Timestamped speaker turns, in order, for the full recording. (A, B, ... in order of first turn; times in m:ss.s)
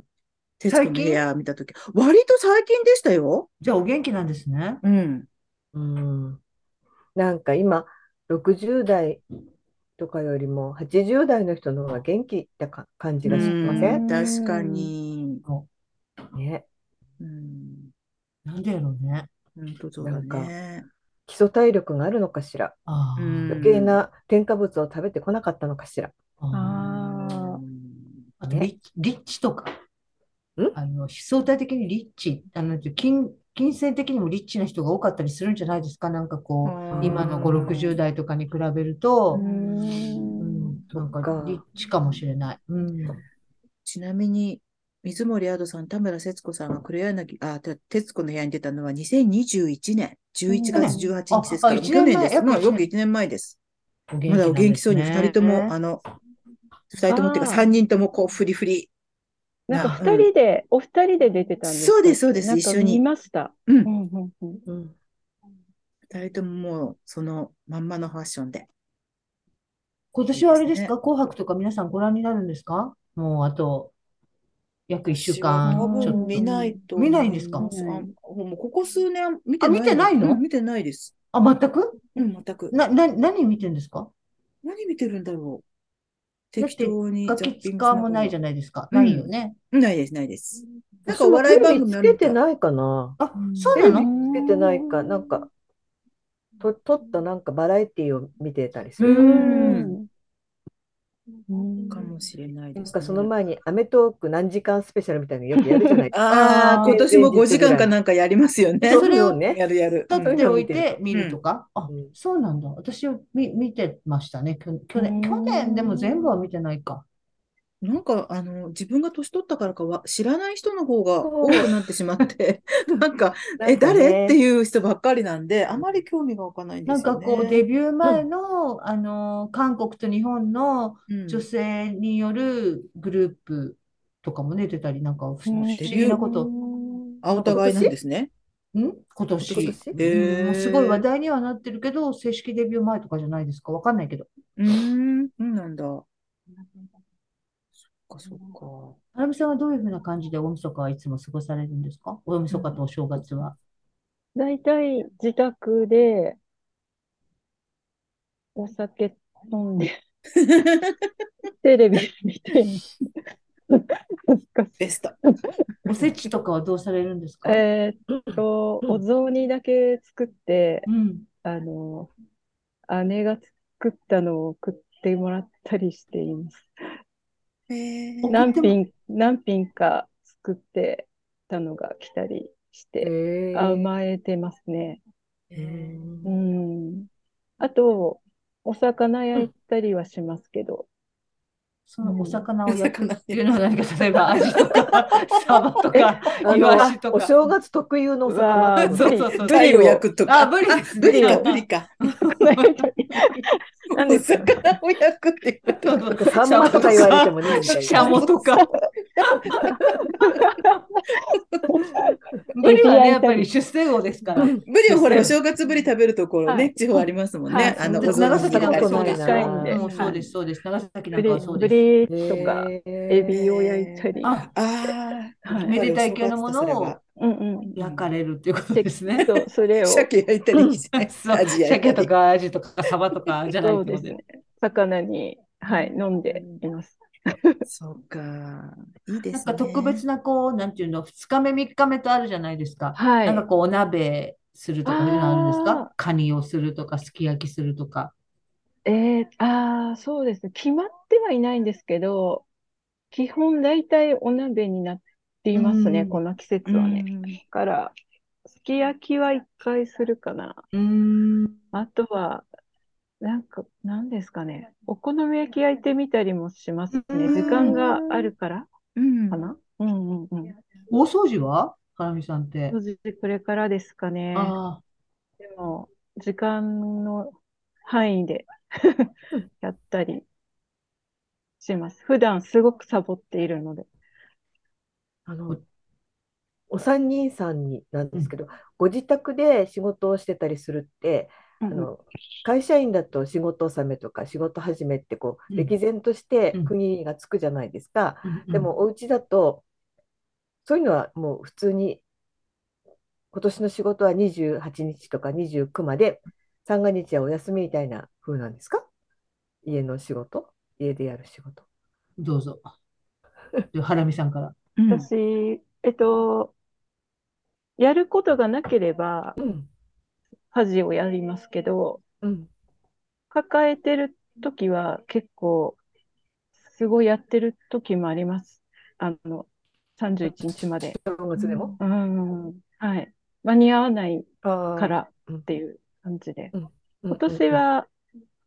0:00.6-0:03.5 A
0:00.7-0:01.2 B
0:03.6-0:04.8 B
0:04.8-0:05.3 A
0:05.7-0:06.4 C
0:07.1-0:09.2 C
0:10.0-0:14.0 C
0:13.2-0:15.4 A
0:13.3-0:14.9 D
0:16.3-0:16.6 C
0:17.2-0:17.9 A
0:18.4-0:19.3 B
0:19.6-0:20.9 A
0:20.0-0:20.5 C
0:21.3-0:22.7 C
0:22.9-0:23.5 B
0:23.2-0:24.0 A
0:23.5-0:26.1 C
0:26.4-0:27.0 B
0:26.5-0:27.6 D
0:27.3-0:28.3 A
0:28.4-0:29.7 B
0:30.7-0:39.4 B
0:36.6-0:38.0 A
0:36.9-0:37.7 C
0:39.3-0:40.5 D
0:39.4-0:40.3 C
0:40.4-0:43.2 B
0:40.9-0:41.6 C
0:43.8-0:53.6 A
0:50.5-0:51.1 D
0:50.7-0:52.8 B
0:54.1-0:55.7 B
0:54.3-0:56.0 A
0:56.9-0:58.9 A
0:57.1-0:57.7 D
0:59.7-1:04.6 D
0:59.7-1:00.3 A
1:01.7-1:03.0 A
1:04.7-1:04.9 C
1:06.1-1:08.7 A
1:10.1-1:13.9 B
1:10.3-1:10.9 A
1:14.9-1:17.7 B
1:15.2-1:21.1 A
1:15.7-1:16.8 D
1:17.6-1:18.1 D
1:19.6-1:20.4 B
1:21.3-1:22.0 B
1:22.1-1:22.8 A
1:22.7-1:24.1 B
1:24.6-1:25.6 A
1:26.5-1:28.4 A
1:26.6-1:29.6 B
1:28.9-1:32.4 A
1:31.1-1:33.2 C
1:33.2-1:34.1 B
1:33.7-1:35.5 C
1:33.8-1:35.2 D
1:36.6-1:39.8 C
1:39.0-1:40.1 D
1:39.0-1:39.9 A
1:41.5-1:42.1 D
1:41.9-1:43.3 A
1:42.8-1:47.9 C
1:45.6-1:46.0 D
1:46.1-1:50.4 A
1:46.3-1:46.9 B
1:48.8-1:49.4 B
1:48.9-1:50.9 C
1:50.1-1:57.0 B
1:51.1-1:51.4 A
1:55.0-1:56.3 D
1:57.8-2:07.6 A
2:01.2-2:01.7 C
2:03.6-2:04.4 C
2:06.8-2:16.5 B
2:11.1-2:11.4 A
2:15.4-2:17.2 D
2:15.8-2:16.2 A
2:17.2-2:18.3 A
2:17.4-2:17.8 B
2:18.7-2:24.3 B
2:19.4-2:20.0 C
2:19.5-2:21.0 A
2:24.6-2:26.0 A
2:27.9-2:29.0 A
2:29.1-2:33.6 B
2:34.4-2:36.4 D
2:38.6-2:39.9 D
2:40.4-2:40.9 A
2:41.6-2:42.9 D
2:43.7-2:45.4 D
2:44.8-2:45.2 A
2:45.8-2:47.6 B
2:47.4-2:50.9 D
2:48.1-2:48.4 C
2:50.8-2:51.2 B
2:51.4-2:52.1 D
2:52.9-2:56.7 D
2:57.7-2:58.3 A
2:58.2-2:58.8 B
2:58.3-3:05.0 D
3:03.0-3:03.9 C
3:05.5-3:06.3 C
3:06.2-3:07.1 D
3:07.6-3:10.9 D
3:11.9-3:17.5 B
3:12.0-3:12.4 D
3:12.7-3:13.6 A
3:14.2-3:15.6 A
3:15.9-3:16.9 D
3:16.4-3:19.2 C
3:18.2-3:19.6 D
3:18.8-3:22.9 B
3:19.4-3:21.9 A
3:21.0-3:21.5 D
3:22.3-3:24.6 D
3:23.9-3:29.8 A
3:25.8-3:28.7 B
3:26.2-3:28.2 C
3:30.2-3:33.5 D
3:31.3-3:31.6 A
3:32.5-3:35.3 B
3:34.4-3:34.6 C
3:34.6-3:40.2 A
3:36.4-3:36.8 D
3:37.5-3:40.2 D
3:37.8-3:41.8 B
3:38.0-3:39.8 C
3:41.1-3:44.4 D
3:42.1-3:43.4 C
3:43.3-3:47.0 A
3:44.2-3:44.5 B
3:45.4-3:45.7 D
3:45.5-3:47.0 B
3:47.2-3:47.8 D
3:47.8-3:49.3 B
3:47.8-3:48.0 A
3:48.7-3:50.1 D
3:49.8-3:52.1 A
3:50.5-3:50.8 C
3:50.9-3:54.2 B
3:53.6-3:57.6 D
3:56.3-3:56.6 A
3:57.7-4:00.0 A
3:59.3-4:08.1 B
4:03.0-4:03.4 D
4:04.8-4:05.9 D
4:08.8-4:12.4 D
4:13.1-4:17.9 D
4:15.5-4:16.2 B
4:16.6-4:17.4 A
4:18.5-4:20.6 D
4:20.7-4:21.6 B
4:21.7-4:22.4 D
4:23.2-4:28.7 D
4:26.9-4:28.3 B
4:29.0-4:29.4 A
4:29.3-4:30.5 D
4:30.9-4:32.8 B
4:32.7-4:34.6 D
4:34.3-4:34.8 B
4:35.4-4:37.3 D
4:37.8-4:40.2 D
4:41.6-4:43.9 D
4:45.3-4:45.6 C
4:46.7-4:59.6 C
4:51.6-4:51.9 D
4:58.2-4:58.7 B
5:00.6-5:02.0 C
5:03.3-5:08.8 C
5:09.6-5:11.6 C
5:12.2-5:12.7 B
5:13.7-5:14.5 B
5:14.8-5:15.1 A
5:14.9-5:16.5 D
5:17.8-5:19.4 D
5:19.4-5:19.7 C
5:20.5-5:22.0 D
5:22.2-5:22.5 C
5:23.3-5:25.8 D
5:26.7-5:31.0 D
5:30.9-5:31.8 C
5:31.4-5:31.7 B
5:31.8-5:36.5 D
5:34.4-5:35.4 C
5:36.5-5:37.6 C
5:37.1-5:37.9 D